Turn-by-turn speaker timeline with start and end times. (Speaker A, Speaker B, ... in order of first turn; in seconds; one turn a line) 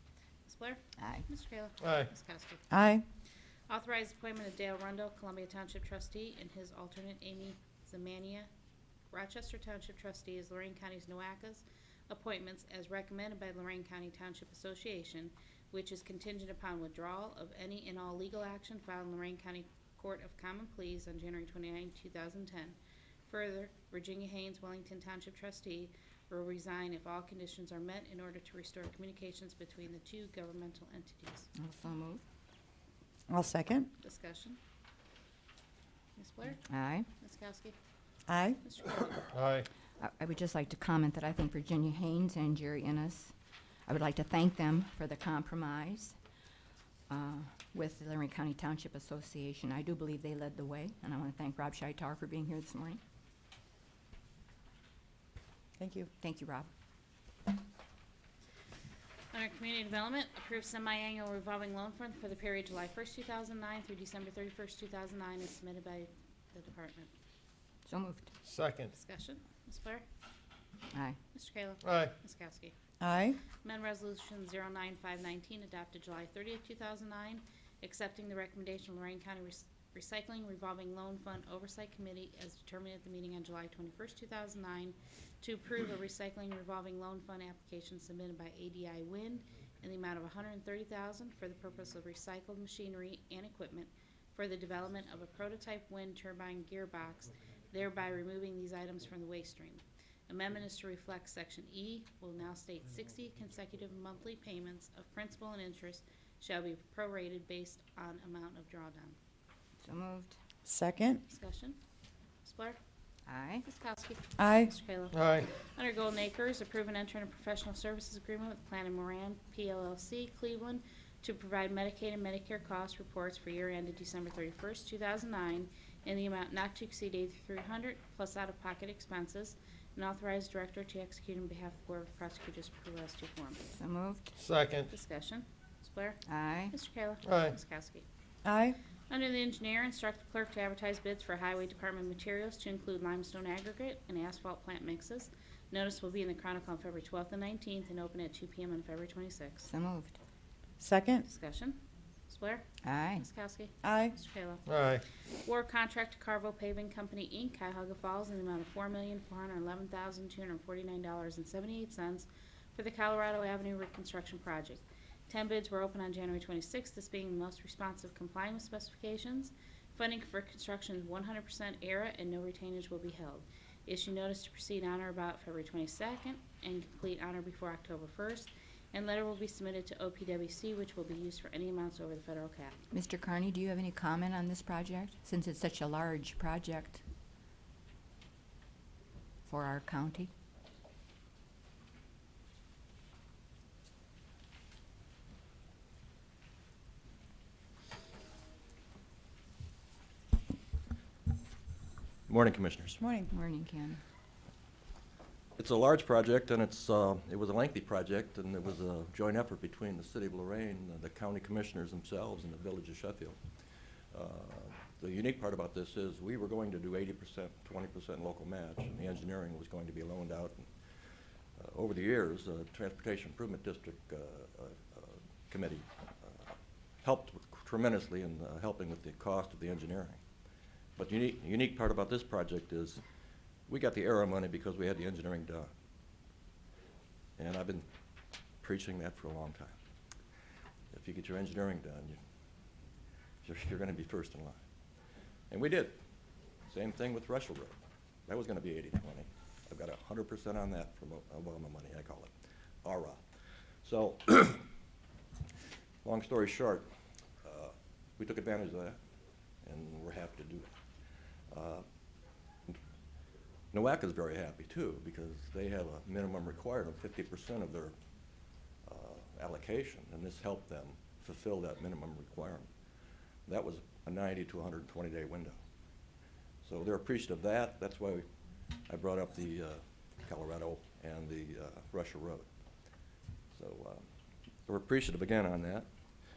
Speaker A: 0.5-2.6
Speaker B: 1.0-1.2
Speaker C: 1.8-2.1
Speaker D: 2.7-3.0
Speaker A: 3.7-8.5
Speaker A: 9.1-31.5
Speaker B: 31.6-32.2
Speaker D: 33.3-33.9
Speaker A: 34.0-34.6
Speaker A: 36.2-36.6
Speaker B: 36.7-37.1
Speaker A: 37.2-37.8
Speaker D: 38.3-38.6
Speaker A: 38.6-39.3
Speaker C: 39.3-39.7
Speaker B: 40.0-43.3
Speaker B: 43.9-46.2
Speaker B: 47.1-53.0
Speaker D: 55.8-56.1
Speaker B: 56.2-56.7
Speaker A: 59.3-67.1
Speaker B: 67.9-68.3
Speaker C: 68.4-68.9
Speaker A: 68.9-70.0
Speaker B: 70.9-71.2
Speaker A: 71.3-72.7
Speaker C: 71.8-72.1
Speaker D: 73.0-73.4
Speaker A: 73.6-109.2
Speaker B: 109.8-110.3
Speaker D: 110.7-111.2
Speaker A: 111.3-111.8
Speaker A: 112.4-112.8
Speaker B: 113.3-113.6
Speaker A: 113.6-133.6
Speaker D: 114.4-114.7
Speaker C: 115.1-115.5
Speaker B: 133.7-134.3
Speaker C: 134.4-134.9
Speaker A: 134.9-138.1
Speaker B: 136.3-136.7
Speaker C: 137.2-137.6
Speaker D: 138.4-138.8
Speaker A: 139.1-149.7
Speaker B: 149.7-150.2
Speaker D: 150.8-151.2
Speaker A: 151.2-154.7
Speaker B: 152.8-153.2
Speaker D: 153.8-154.1
Speaker C: 154.7-155.0
Speaker A: 155.4-182.8
Speaker B: 182.9-187.0
Speaker B: 189.5-190.3
Speaker E: 202.3-203.0
Speaker D: 203.0-203.3
Speaker B: 203.3-204.0
Speaker E: 205.6-213.4
Speaker E: 214.1-220.7
Speaker E: 221.6-230.2
Speaker E: 231.0-233.0
Speaker E: 233.7-235.7
Speaker E: 237.4-237.9
Speaker E: 238.6-239.8
Speaker E: 240.9-242.2
Speaker E: 243.4-244.6
Speaker E: 245.5-246.0
Speaker E: 246.7-252.3
Speaker E: 252.8-253.2
Speaker E: 253.8-254.7
Speaker E: 256.0-256.9
Speaker E: 257.4-259.0
Speaker E: 259.6-260.7
Speaker E: 261.5-261.8
Speaker E: 263.7-267.9
Speaker E: 268.9-272.7
Speaker E: 273.5-275.6
Speaker E: 276.6-278.2
Speaker E: 278.9-282.5
Speaker E: 283.6-284.1
Speaker E: 284.7-285.9